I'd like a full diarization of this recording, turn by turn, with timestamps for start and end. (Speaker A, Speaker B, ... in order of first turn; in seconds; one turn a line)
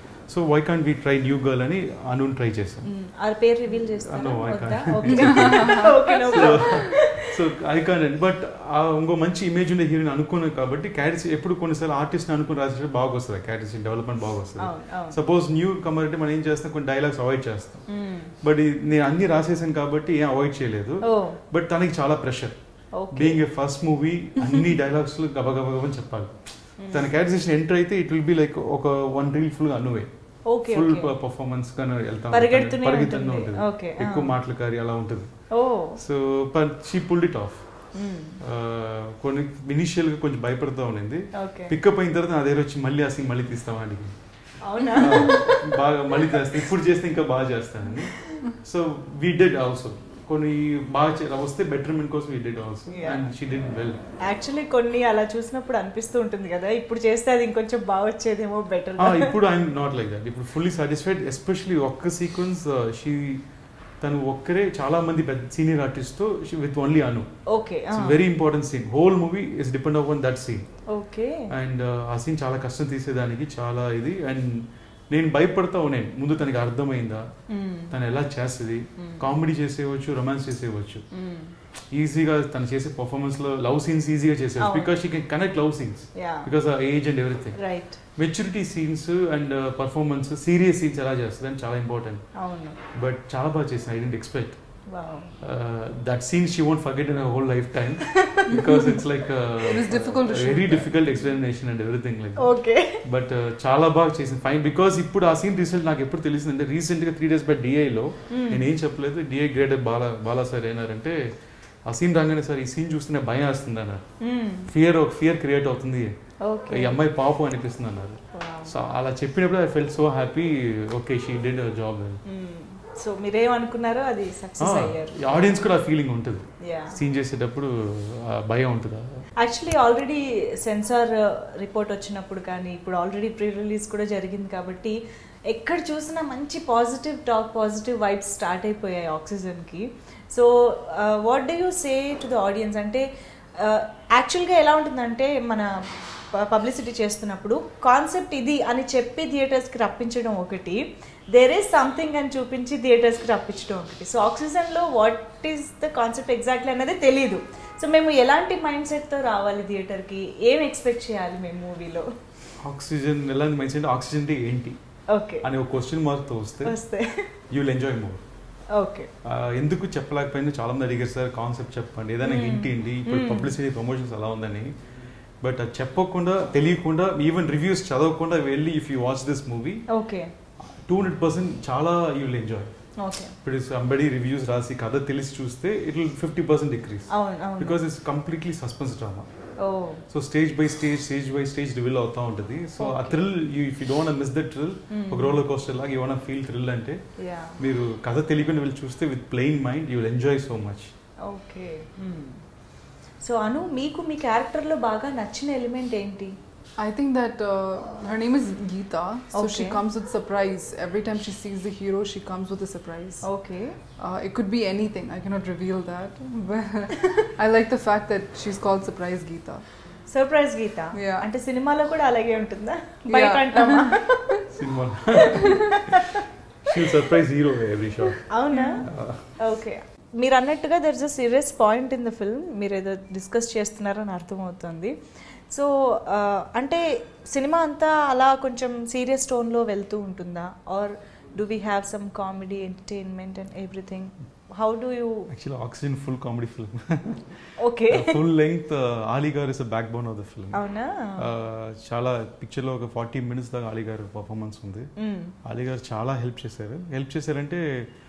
Speaker A: 0.3-2.9
Speaker B: 2.8-7.3
Speaker A: 4.0-17.9
Speaker C: 5.2-6.7
Speaker B: 14.6-15.2
Speaker B: 17.9-18.3
Speaker A: 18.4-22.6
Speaker B: 21.0-21.4
Speaker B: 22.9-23.4
Speaker A: 23.1-30.1
Speaker B: 26.8-27.1
Speaker B: 30.5-31.1
Speaker A: 30.7-35.3
Speaker B: 32.3-34.3
Speaker B: 35.5-36.0
Speaker A: 36.0-37.9
Speaker B: 37.9-38.4
Speaker A: 38.4-44.1
Speaker B: 41.4-41.7
Speaker B: 44.6-45.6
Speaker A: 45.0-54.0
Speaker B: 52.9-53.3
Speaker B: 54.3-59.3
Speaker A: 59.0-63.4
Speaker A: 64.0-67.3
Speaker B: 67.5-68.2
Speaker A: 67.9-70.6
Speaker B: 70.9-71.5
Speaker A: 71.5-77.2
Speaker B: 77.5-77.9
Speaker A: 77.9-81.0
Speaker B: 79.0-79.3
Speaker B: 81.1-81.5
Speaker A: 81.9-87.6
Speaker B: 84.6-84.9
Speaker B: 86.2-86.5
Speaker B: 87.6-88.0
Speaker A: 88.2-92.3
Speaker B: 92.4-92.8
Speaker A: 93.0-94.6
Speaker B: 94.9-95.3
Speaker A: 95.4-111.2
Speaker B: 98.1-98.5
Speaker C: 98.5-99.0
Speaker C: 99.6-101.1
Speaker B: 102.4-103.0
Speaker B: 108.3-108.6
Speaker A: 111.9-114.0
Speaker B: 114.2-114.7
Speaker A: 114.7-116.2
Speaker B: 116.4-117.0
Speaker A: 116.7-122.2
Speaker B: 118.3-118.7
Speaker B: 122.3-125.6
Speaker A: 124.6-129.2
Speaker B: 126.6-127.0
Speaker B: 129.4-134.9
Speaker B: 135.5-143.1
Speaker B: 143.6-145.7
Speaker B: 146.4-162.1
Speaker A: 162.6-164.8
Speaker B: 165.1-165.4
Speaker A: 165.4-166.8
Speaker B: 166.7-167.1
Speaker A: 167.5-168.2
Speaker B: 168.7-169.1
Speaker A: 169.2-174.7
Speaker B: 172.2-173.5
Speaker A: 175.4-179.8
Speaker B: 179.9-180.3
Speaker A: 180.7-182.7
Speaker B: 183.0-183.3
Speaker A: 183.4-189.3
Speaker B: 187.1-187.8
Speaker B: 189.6-190.0
Speaker A: 190.1-197.0
Speaker B: 192.8-193.2
Speaker B: 194.9-195.4
Speaker B: 197.2-197.6
Speaker A: 197.6-200.9
Speaker B: 201.3-202.4
Speaker B: 203.2-206.3
Speaker C: 206.8-213.3
Speaker B: 209.3-209.8
Speaker B: 213.2-213.8
Speaker C: 214.0-219.6
Speaker B: 220.1-224.2
Speaker C: 220.9-221.3
Speaker C: 223.1-224.4
Speaker A: 224.5-225.5
Speaker B: 225.3-226.2
Speaker C: 225.3-225.6
Speaker A: 226.6-228.3
Speaker B: 228.3-228.8
Speaker C: 228.5-228.8
Speaker A: 228.8-229.3
Speaker B: 229.4-245.3
Speaker A: 245.3-247.4
Speaker B: 247.6-248.2
Speaker A: 247.9-250.6
Speaker B: 250.5-251.2
Speaker A: 251.2-254.9
Speaker B: 255.0-255.3
Speaker A: 255.4-257.6